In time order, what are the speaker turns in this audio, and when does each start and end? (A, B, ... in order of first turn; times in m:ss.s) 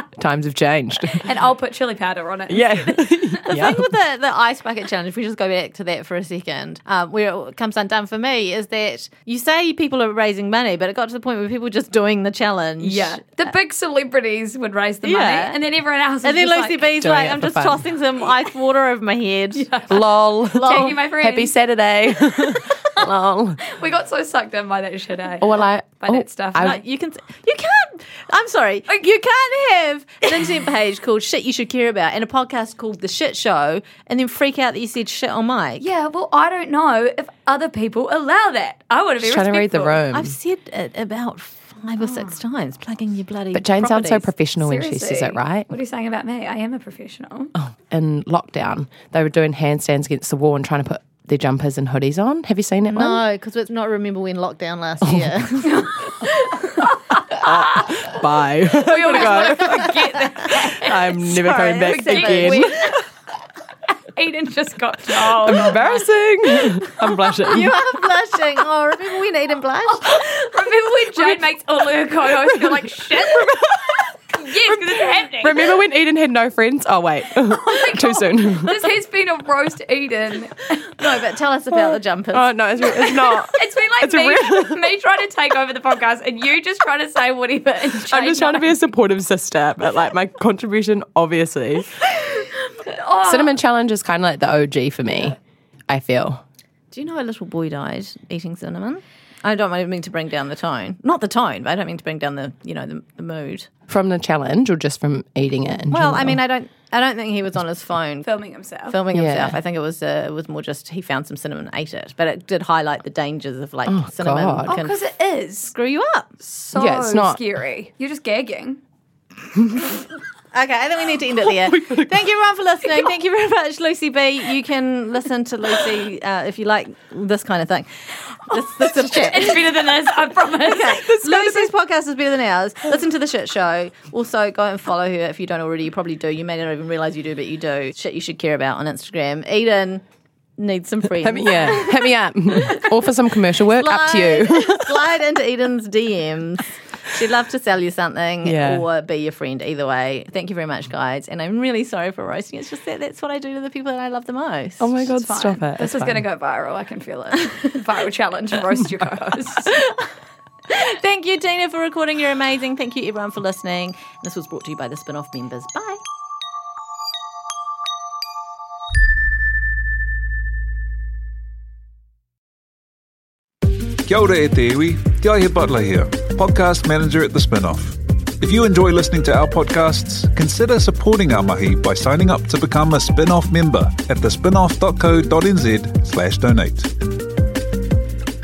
0:00.2-0:01.3 A
0:01.1-0:03.5 B
0:02.5-0:03.9 A
0:03.5-0:13.5 C
0:12.8-0:16.9 B
0:15.0-0:15.6 C
0:16.2-0:19.8 C
0:17.0-0:17.9 A
0:19.6-0:21.6 B
0:19.9-0:23.7 A
0:20.5-0:21.0 C
0:22.1-0:23.1 B
0:23.6-0:26.8 B
0:25.4-0:26.8 A
0:26.6-0:35.9 C
0:35.8-0:40.0 B
0:39.2-0:40.4 A
0:40.1-0:44.3 C
0:42.0-0:42.4 B
0:43.5-0:45.7 A
0:44.6-0:47.5 B
0:47.6-0:53.2 A
0:52.9-0:55.9 C
0:55.0-0:55.3 A
0:55.6-0:57.4 B
0:57.3-1:02.9 A
0:58.7-1:01.1 B
0:59.0-1:00.2 C
1:00.9-1:02.8 C
1:01.8-1:03.0 B
1:04.2-1:06.1 B
1:05.3-1:07.8 A
1:07.4-1:10.1 C
1:09.9-1:13.6 B
1:14.3-1:15.7 B
1:14.6-1:18.9 A
1:17.5-1:20.9 B
1:21.0-1:23.4 C
1:21.7-1:24.8 A
1:23.5-1:28.8 B
1:28.1-1:31.9 A
1:32.8-1:33.6 B
1:33.2-1:35.4 A
1:35.9-1:36.4 A
1:36.9-1:43.7 C
1:43.9-1:46.4 A
1:45.9-1:48.3 C
1:48.2-1:49.0 B
1:48.9-1:55.0 C
1:49.1-1:49.6 A
1:53.9-1:54.8 A
1:54.7-1:55.7 B
1:55.6-1:56.3 C
1:56.4-1:58.8 B
1:56.7-1:57.4 A
2:00.5-2:20.0 C
2:09.0-2:11.5 B
2:20.6-2:22.1 C
2:21.2-2:25.1 A
2:23.7-2:34.9 C
2:28.4-2:28.8 A
2:34.8-2:36.2 A
2:35.1-2:39.8 B
2:40.7-2:46.0 C
2:54.0-3:06.9 D